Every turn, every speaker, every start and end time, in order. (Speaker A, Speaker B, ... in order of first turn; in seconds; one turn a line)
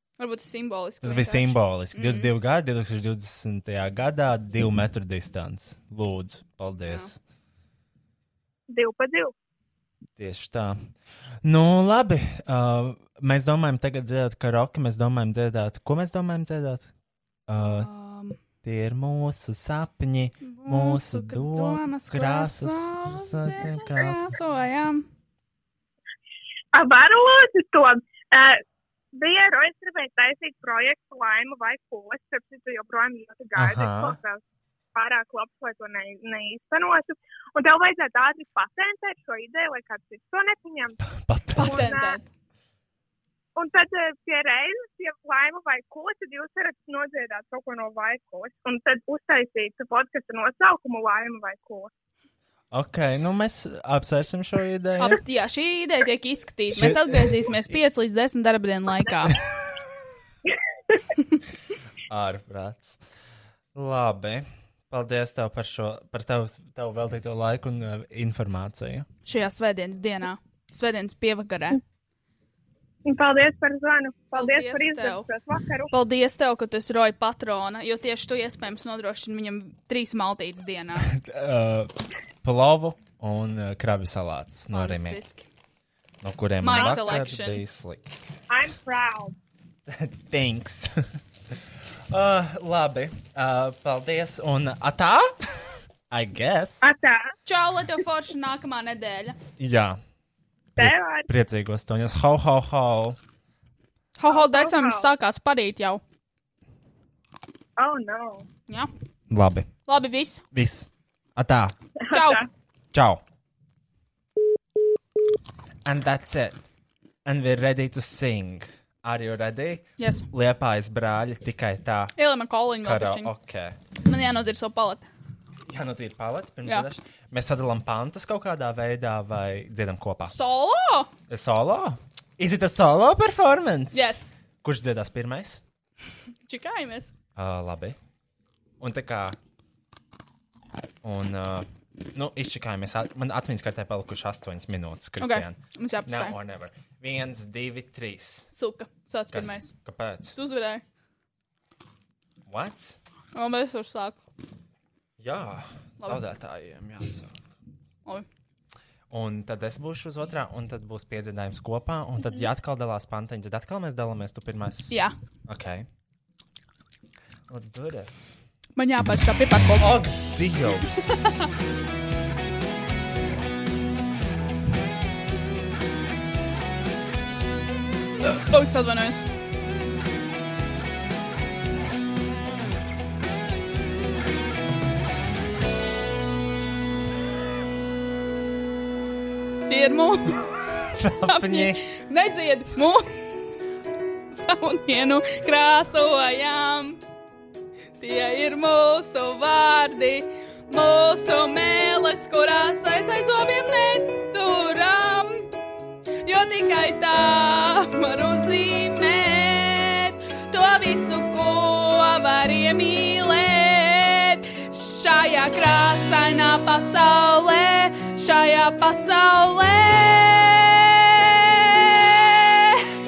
Speaker A: 0.2-2.3
Speaker B: 1.0-7.2
Speaker C: 8.7-9.3
Speaker B: 10.2-10.9
Speaker B: 11.4-16.9
Speaker B: 17.5-17.9
Speaker A: 17.6-18.4
Speaker B: 18.6-24.3
Speaker A: 20.4-25.1
Speaker C: 26.7-28.6
Speaker C: 29.1-34.4
Speaker B: 33.5-34.2
Speaker C: 34.9-42.2
Speaker B: 41.1-41.9
Speaker A: 41.6-42.3
Speaker C: 43.6-51.9
Speaker B: 52.7-55.2
Speaker A: 55.0-59.4
Speaker B: 56.7-57.7
Speaker B: 62.1-63.0
Speaker B: 63.7-69.1
Speaker A: 69.3-71.8
Speaker C: 73.1-75.9
Speaker A: 74.3-75.3
Speaker A: 75.9-81.1
Speaker B: 81.0-81.9
Speaker B: 82.4-85.2
Speaker A: 84.7-85.5
Speaker B: 86.2-88.1
Speaker A: 86.6-87.6
Speaker C: 86.7-87.1
Speaker C: 88.5-89.3
Speaker B: 89.9-91.0
Speaker B: 92.1-95.3
Speaker B: 96.1-97.0
Speaker C: 96.8-97.2
Speaker A: 97.5-99.4
Speaker B: 99.6-100.0
Speaker B: 100.8-103.2
Speaker C: 100.8-101.3
Speaker A: 104.2-106.0
Speaker C: 104.3-105.1
Speaker C: 107.8-108.5
Speaker B: 109.3-109.7
Speaker A: 109.9-110.4
Speaker B: 110.5-111.8
Speaker C: 112.1-112.5
Speaker A: 112.1-112.4
Speaker B: 112.9-113.2
Speaker B: 115.8-116.6
Speaker B: 117.2-122.1
Speaker A: 120.0-120.3
Speaker A: 122.2-123.3
Speaker B: 122.8-123.8
Speaker A: 124.0-125.0
Speaker B: 125.7-130.3
Speaker A: 130.3-131.1
Speaker B: 131.3-135.6
Speaker A: 133.9-134.3
Speaker A: 136.5-137.1
Speaker B: 137.3-138.0
Speaker B: 138.8-139.4
Speaker B: 141.0-148.5
Speaker A: 145.2-146.4
Speaker A: 148.5-149.7
Speaker B: 149.3-150.4
Speaker A: 150.3-150.8
Speaker B: 152.5-153.0
Speaker A: 153.3-154.2
Speaker B: 155.2-157.3
Speaker B: 159.1-165.9
Speaker A: 164.9-165.2
Speaker B: 167.5-168.3
Speaker A: 168.8-170.0
Speaker B: 169.8-171.3
Speaker A: 178.3-179.3
Speaker A: 189.7-190.5
Speaker B: 190.9-191.8
Speaker A: 191.2-193.3
Speaker A: 194.3-197.0
Speaker A: 198.0-205.5
Speaker A: 206.2-222.8